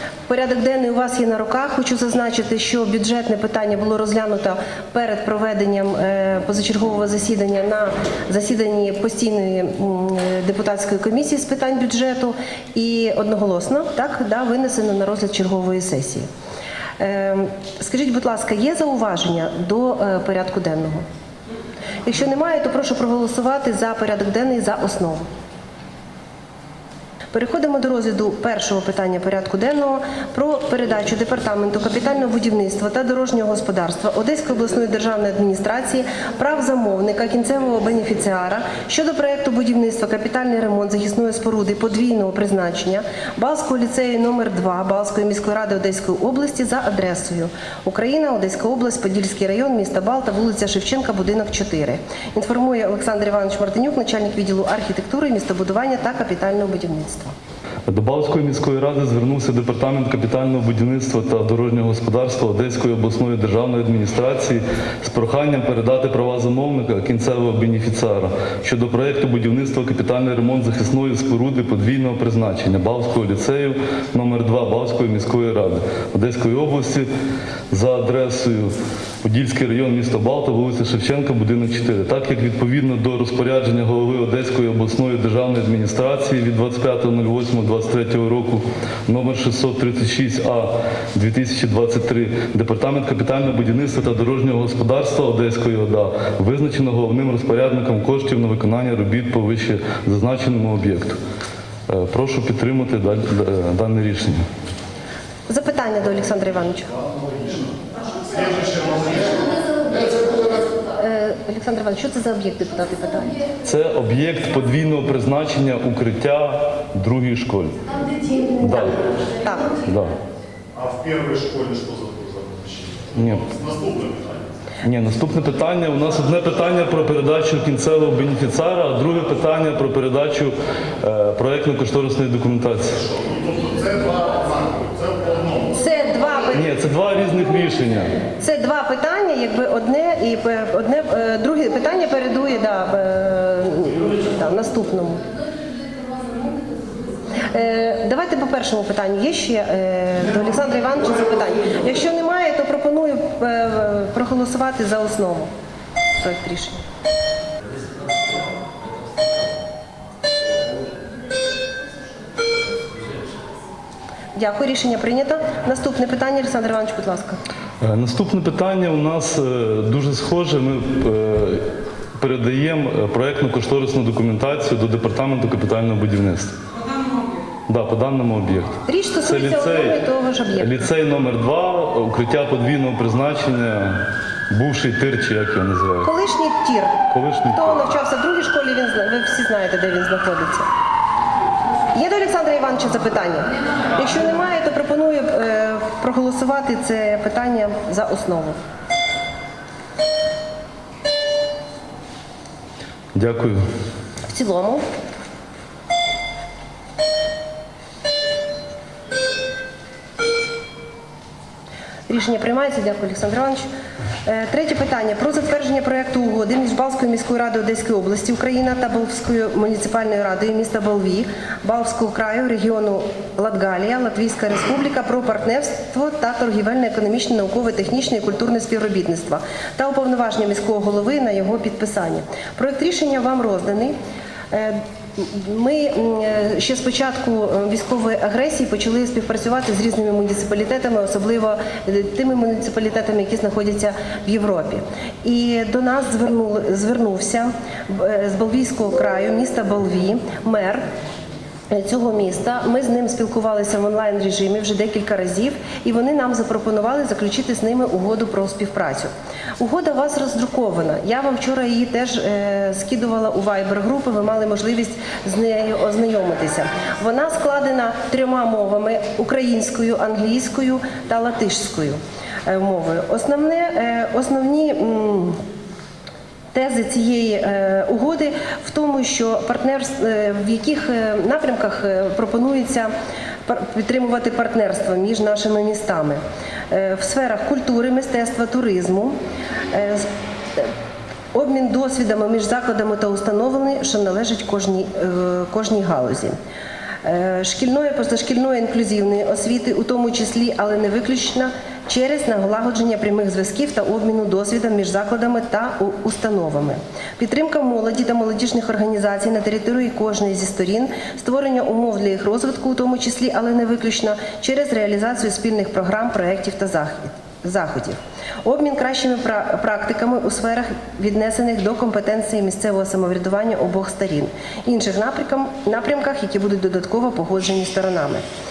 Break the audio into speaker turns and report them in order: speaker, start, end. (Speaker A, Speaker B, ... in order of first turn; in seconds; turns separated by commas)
Speaker A: 0.3-16.3, Speaker A: 17.0-21.1, Speaker A: 22.0-25.3, Speaker A: 27.3-57.3, Speaker B: 57.9-77.1, Speaker B: 77.7-78.7, Speaker B: 79.2-101.2, Speaker B: 101.9-104.4, Speaker A: 105.5-107.0, Speaker C: 108.5-109.5, Speaker A: 111.0-113.5, Speaker B: 113.6-117.9, Speaker A: 118.3-119.8, Speaker B: 118.6-119.0, Speaker B: 119.8-120.2, Speaker C: 120.8-124.5, Speaker B: 123.2-123.5, Speaker B: 124.8-133.0, Speaker C: 133.2-135.7, Speaker A: 135.7-136.7, Speaker B: 136.5-138.2, Speaker A: 138.4-145.2, Speaker A: 147.3-155.5, Speaker A: 156.2-156.8, Speaker A: 164.3-167.4, Speaker B: 167.8-171.6, Speaker B: 172.2-176.5, Speaker B: 177.7-180.0, Speaker A: 178.9-180.7, Speaker B: 180.6-184.0, Speaker B: 184.5-186.1, Speaker A: 186.0-190.7, Speaker B: 187.1-187.9, Speaker A: 191.9-198.6, Speaker B: 203.1-203.6, Speaker A: 204.3-204.8, Speaker A: 212.1-213.7, Speaker A: 214.2-234.0, Speaker A: 234.5-250.8, Speaker A: 251.7-275.4, Speaker A: 276.5-282.9, Speaker A: 283.5-289.2, Speaker A: 289.7-290.7, Speaker A: 291.3-296.4, Speaker A: 297.0-328.2